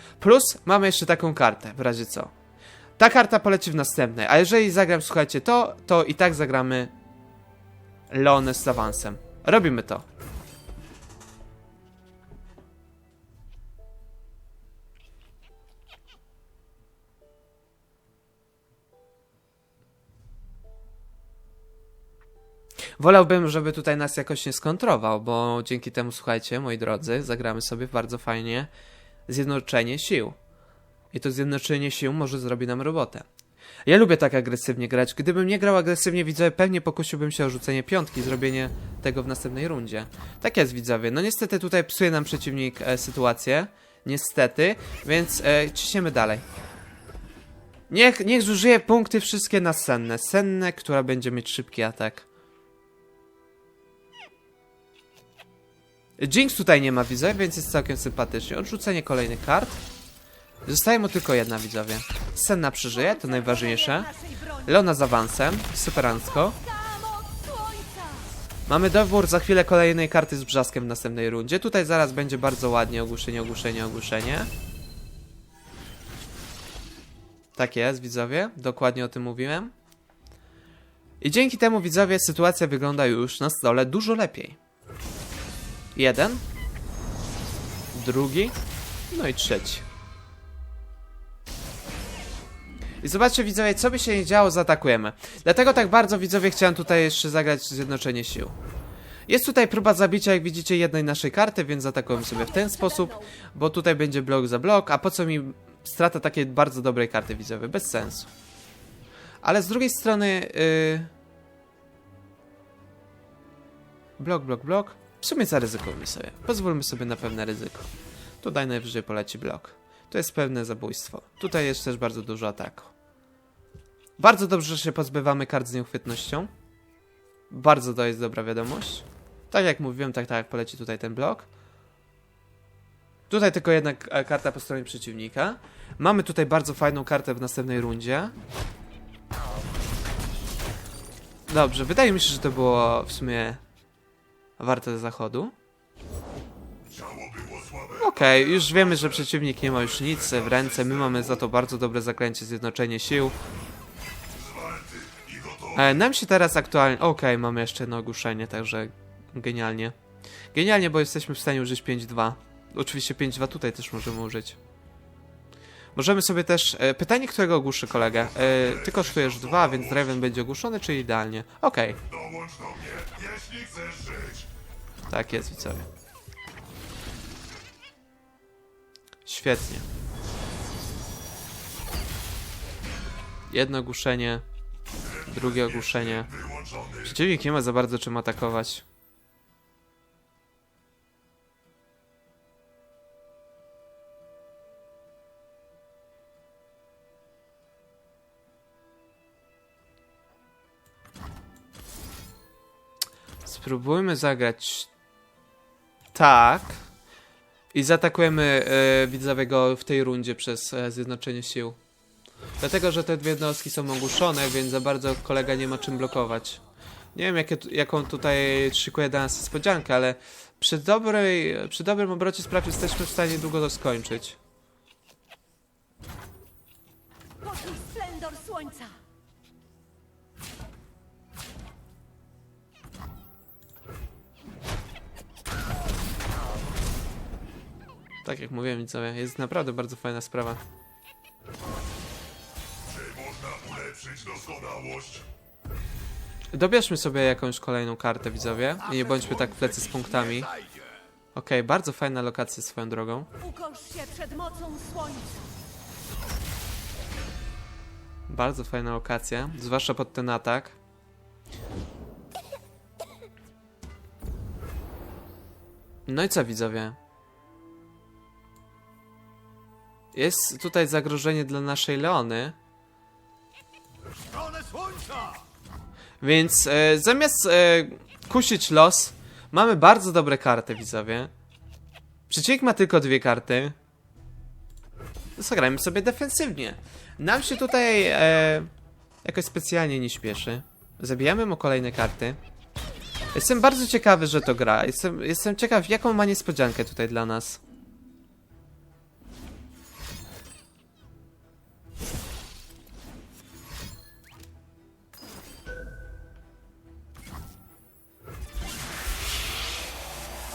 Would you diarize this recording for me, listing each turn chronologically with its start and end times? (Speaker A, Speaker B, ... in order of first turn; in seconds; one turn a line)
Speaker A: 0.2-2.3
Speaker A: 3.0-6.9
Speaker A: 8.1-10.0
Speaker A: 23.0-28.7
Speaker A: 29.3-30.4
Speaker A: 31.1-33.2
Speaker A: 33.9-46.4
Speaker A: 47.9-52.2
Speaker A: 56.2-59.8
Speaker A: 60.6-64.1
Speaker B: 62.9-64.7
Speaker A: 64.7-66.6
Speaker B: 66.3-68.3
Speaker A: 68.7-74.5
Speaker A: 77.6-79.7
Speaker A: 81.2-84.6
Speaker A: 85.9-86.4
Speaker A: 87.9-88.5
Speaker A: 89.1-89.8
Speaker A: 93.0-98.5
Speaker A: 99.3-108.3
Speaker B: 102.1-103.3
Speaker A: 109.4-111.1
Speaker A: 114.2-117.8
Speaker A: 118.4-122.9
Speaker A: 124.2-126.5
Speaker A: 127.5-131.4
Speaker A: 133.3-138.3
Speaker A: 141.5-143.6
Speaker A: 144.6-145.5
Speaker C: 146.9-148.8
Speaker A: 148.0-153.3
Speaker C: 150.1-150.9
Speaker C: 154.3-155.7
Speaker A: 155.7-159.9
Speaker A: 160.5-164.6
Speaker A: 165.9-172.0
Speaker C: 168.6-170.0
Speaker C: 172.1-174.5
Speaker A: 175.1-175.8
Speaker A: 179.2-179.8
Speaker A: 183.5-184.4
Speaker A: 185.2-186.3
Speaker C: 185.4-187.0
Speaker A: 187.0-188.8
Speaker A: 203.4-204.9
Speaker A: 206.1-206.8
Speaker A: 207.7-211.8
Speaker A: 212.6-216.6
Speaker A: 217.1-224.4
Speaker B: 227.4-228.9
Speaker A: 238.2-240.6
Speaker C: 242.9-245.3
Speaker A: 246.5-250.5
Speaker C: 248.8-250.9
Speaker A: 251.3-253.3
Speaker B: 253.4-255.5
Speaker A: 258.3-260.7
Speaker A: 266.1-266.9
Speaker A: 270.1-272.5
Speaker C: 274.3-275.4
Speaker A: 276.2-281.3
Speaker A: 282.3-283.7
Speaker A: 285.4-288.7
Speaker A: 289.2-292.4
Speaker A: 293.3-297.6